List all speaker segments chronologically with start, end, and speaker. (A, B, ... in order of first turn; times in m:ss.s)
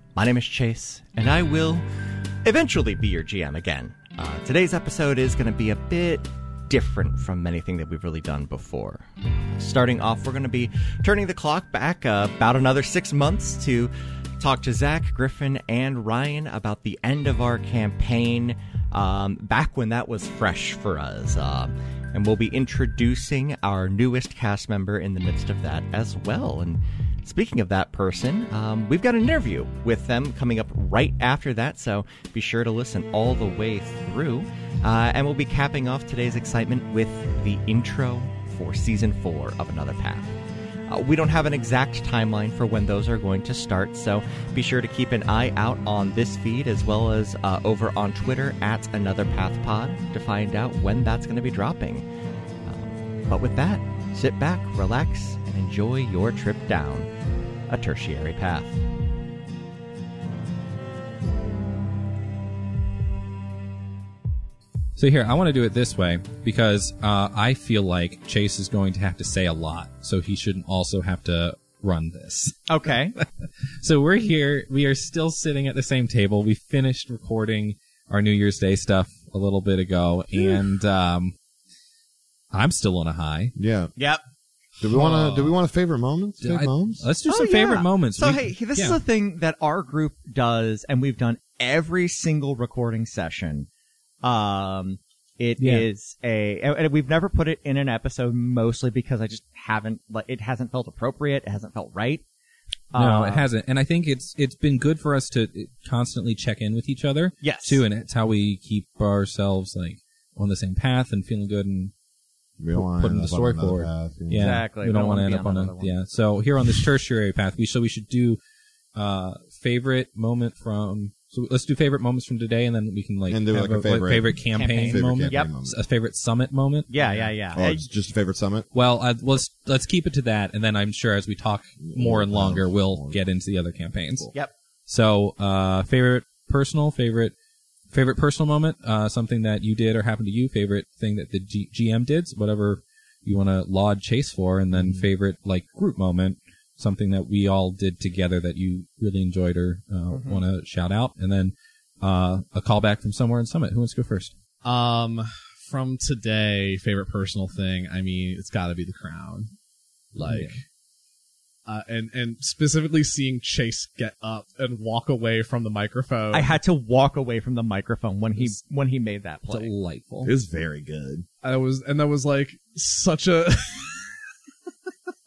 0:00.2-0:01.9 A
0:02.4-0:40.4 A
0:40.9-0:52.1 A
0:52.6-0:57.1 A
0:57.7-0:58.8 A
1:05.0-1:13.2 B
1:12.7-1:13.2 A
1:13.8-1:21.4 B
1:22.5-1:23.5 B
1:23.6-1:23.9 C
1:24.0-1:24.2 A
1:24.8-1:27.1 C
1:24.8-1:25.5 B
1:26.4-1:29.0 B
1:27.3-1:33.7 A
1:34.2-1:42.2 A
1:35.6-1:35.9 B
1:42.9-1:43.4 A
1:43.0-1:51.9 B
1:47.4-1:47.8 A
1:52.6-1:54.6 C
1:52.7-1:58.4 B
1:54.4-1:55.9 A
1:59.0-2:07.3 B
2:03.3-2:05.8 C
2:04.5-2:05.5 A
2:06.9-2:07.8 A
2:07.6-2:08.7 C
2:08.7-2:14.3 B
2:11.8-2:13.2 C
2:14.9-2:17.3 B
2:17.9-2:34.3 B
2:24.7-2:25.1 C
2:30.1-2:30.4 A
2:34.6-2:39.5 D
2:40.2-2:40.6 D
2:40.2-2:40.6 B
2:41.7-2:46.6 D
2:46.3-2:49.7 A
2:49.5-2:50.3 B
2:50.2-2:51.3 C
2:51.4-2:54.1 D